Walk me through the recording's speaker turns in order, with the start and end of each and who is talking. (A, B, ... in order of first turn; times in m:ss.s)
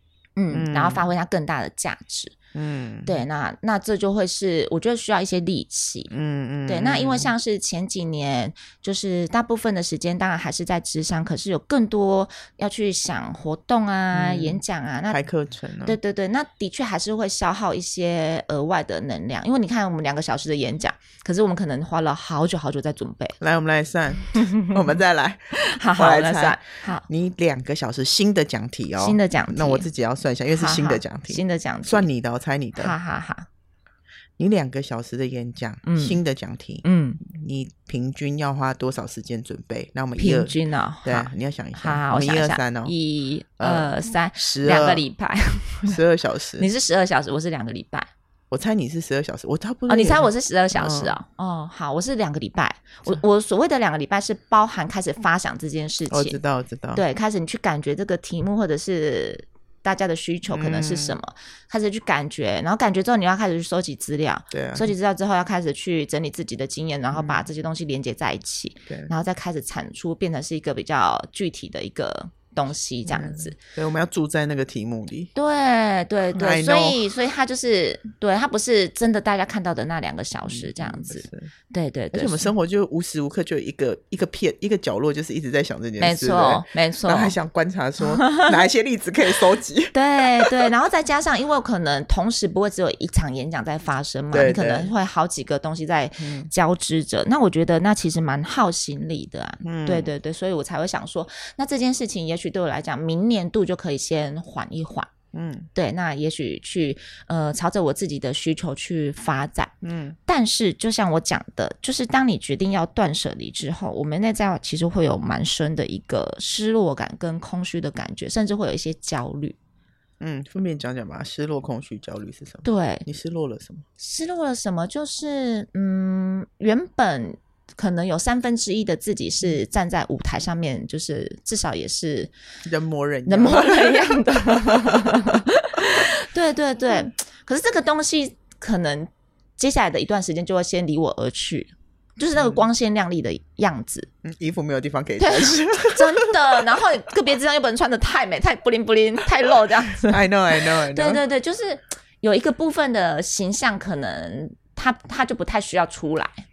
0:00.4-0:02.4 A
0:00.5-0:01.0 B
0:02.5-0:03.2 B
0:03.0-0:06.1 A
0:06.1-0:07.3 B
0:06.7-0:15.2 A
0:14.1-0:16.0 B
0:15.8-0:23.4 A
0:23.4-0:33.0 B
0:24.4-0:24.8 A
0:25.6-0:27.0 A
0:29.0-0:29.9 A
0:30.5-0:32.1 A
0:32.8-0:33.5 A
0:34.4-0:42.9 B
0:35.8-0:36.2 A
0:36.8-0:37.2 A
0:40.2-0:46.0 A
0:43.6-0:45.0 B
0:45.8-0:46.7 B
0:46.6-0:48.1 A
0:48.5-0:51.2 B
0:49.9-0:56.4 A
0:56.1-0:57.0 B
0:56.9-1:13.6 A
1:00.5-1:01.2 B
1:04.5-1:04.9 B
1:07.1-1:07.4 B
1:13.1-1:15.3 B
1:15.3-1:22.5 A
1:16.3-1:17.0 B
1:20.5-1:21.5 B
1:22.1-1:30.7 B
1:26.0-1:27.4 A
1:28.0-1:28.6 A
1:29.9-1:45.1 A
1:34.3-1:34.9 B
1:36.2-1:36.5 B
1:39.6-1:40.1 B
1:45.3-1:45.7 B
1:45.7-1:49.7 A
1:49.8-1:50.2 B
1:50.3-1:59.6 A
2:00.2-2:03.8 B
2:02.6-2:03.0 A
2:04.0-2:12.3 A
2:12.6-2:14.2 B
2:13.3-2:24.1 A
2:22.4-2:22.6 B
2:24.2-2:26.6 B
2:25.2-2:36.4 A
2:30.1-2:31.2 B